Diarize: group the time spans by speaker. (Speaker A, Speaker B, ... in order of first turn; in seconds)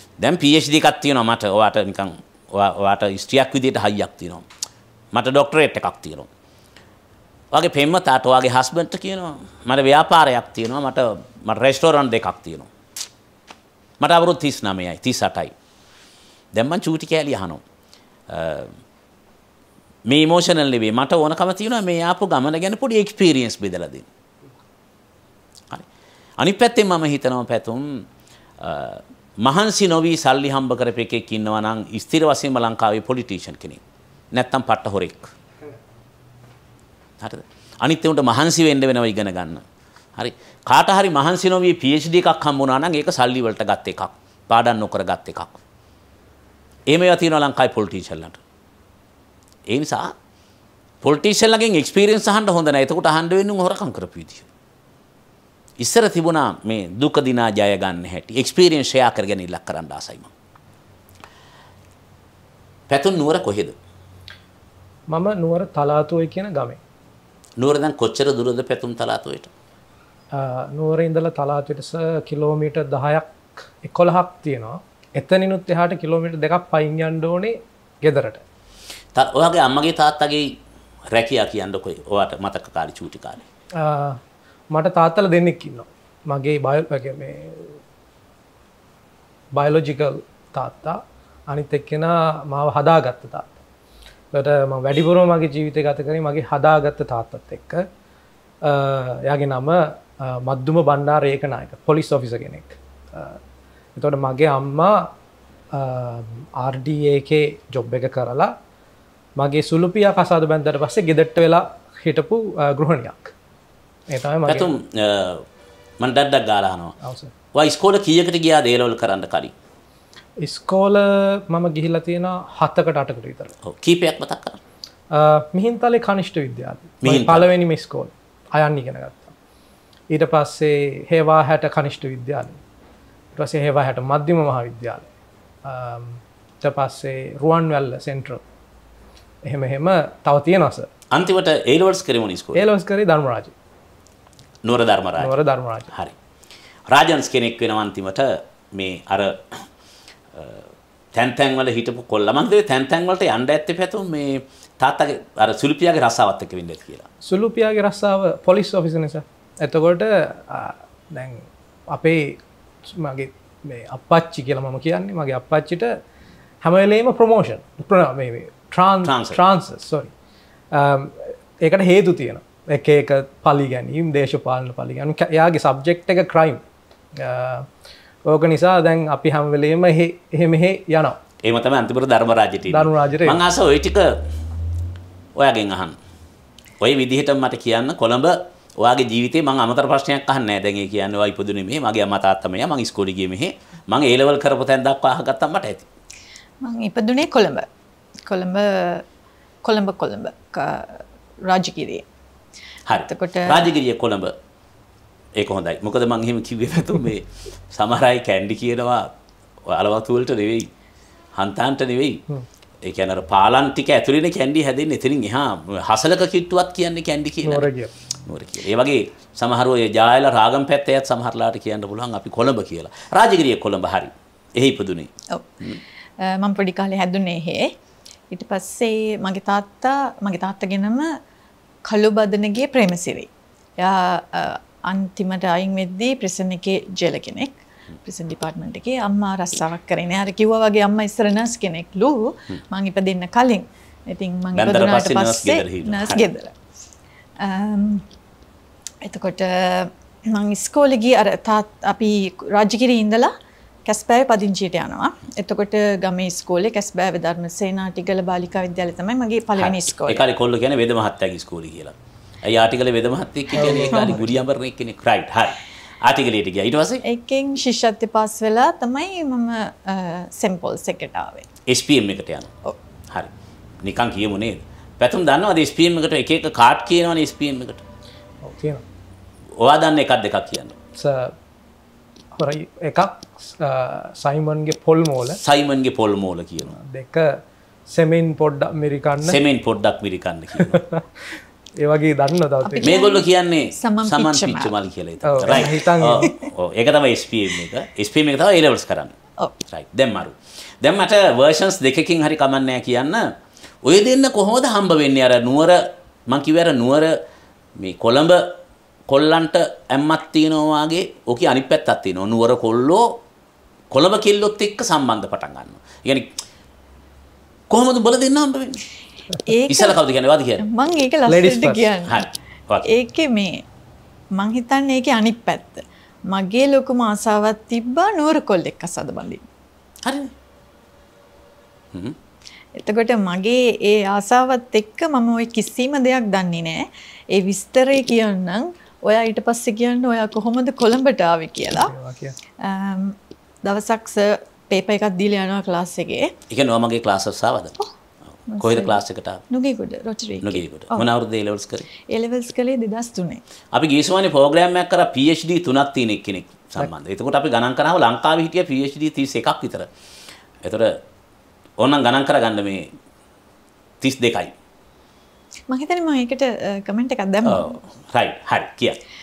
Speaker A: 0.2-4.5, 5.1-6.3, 7.5-12.7, 14.0-15.5, 16.5-17.6, 18.3-18.7, 20.1-24.1, 26.4-28.0, 28.6-33.8, 34.3-35.3, 37.2-39.6, 40.1-45.6, 46.9-48.4, 49.7-50.1, 51.0-54.5, 55.8-60.3, 62.9-63.7, 67.6-69.5, 79.1-80.5, 81.1-83.4, 114.5-115.5, 116.0-116.9, 117.5-119.5, 123.6-124.6, 127.0-127.5, 141.1-142.7, 144.6-145.4, 145.9-146.2, 146.9-149.7, 150.3-157.0, 169.0-169.4, 181.4-184.2, 185.3-186.0, 186.8-195.9, 202.9-204.3, 205.3-209.1, 209.6-210.7, 211.3-212.2, 212.8-217.7, 218.2-225.8, 244.5-246.3, 259.6-267.0, 271.6-272.5, 273.8-277.8, 279.6-280.8, 285.4-286.8, 289.2-290.8, 292.8-299.1, 299.7-303.3, 303.8-307.1, 307.8-308.5, 309.1-313.2, 313.9-316.3, 317.7-318.8, 319.7-320.6, 322.1-322.9, 330.0-330.3, 331.9-332.2, 346.5-347.8, 348.6-349.4, 350.4-351.9, 353.7-359.9, 360.6-361.0, 361.8-362.9, 364.0-364.5, 367.4-369.0
Speaker B: 65.1-66.8, 70.3-73.2, 73.8-78.4, 83.8-84.2, 84.7-87.8, 89.5-93.6, 94.3-97.8, 98.6-103.4, 104.0-105.1, 105.7-108.5, 109.4-113.3, 114.1-114.7, 117.0-117.3, 120.4-123.5, 125.1-129.3, 130.1-132.6, 133.3-135.1, 135.6-138.4, 139.4-140.9, 142.5-143.5, 145.2-145.9, 157.2-165.9, 166.6-170.1, 170.7-176.6, 177.2-177.7, 178.2-181.2, 182.7-183.4, 217.4-217.9, 263.6-264.3, 278.4-278.8, 280.9-281.4, 282.4-285.4, 286.7-287.4, 287.9-289.4, 290.6-291.0, 291.8-293.0, 295.2-296.3, 321.3-321.9, 341.7-342.4
Speaker C: 196.6-197.7, 198.2-199.0, 199.6-202.0, 203.0-203.7, 226.2-227.7, 228.3-231.2, 231.8-246.5, 247.4-248.0, 249.0-253.3, 253.8-260.2, 263.6-264.2, 267.0-271.5, 292.6-294.8, 319.4-320.0, 320.6-322.3, 322.9-323.6, 324.3-329.4, 332.8-341.9, 342.6-346.3, 348.5-351.1, 352.0-353.4, 365.7-367.8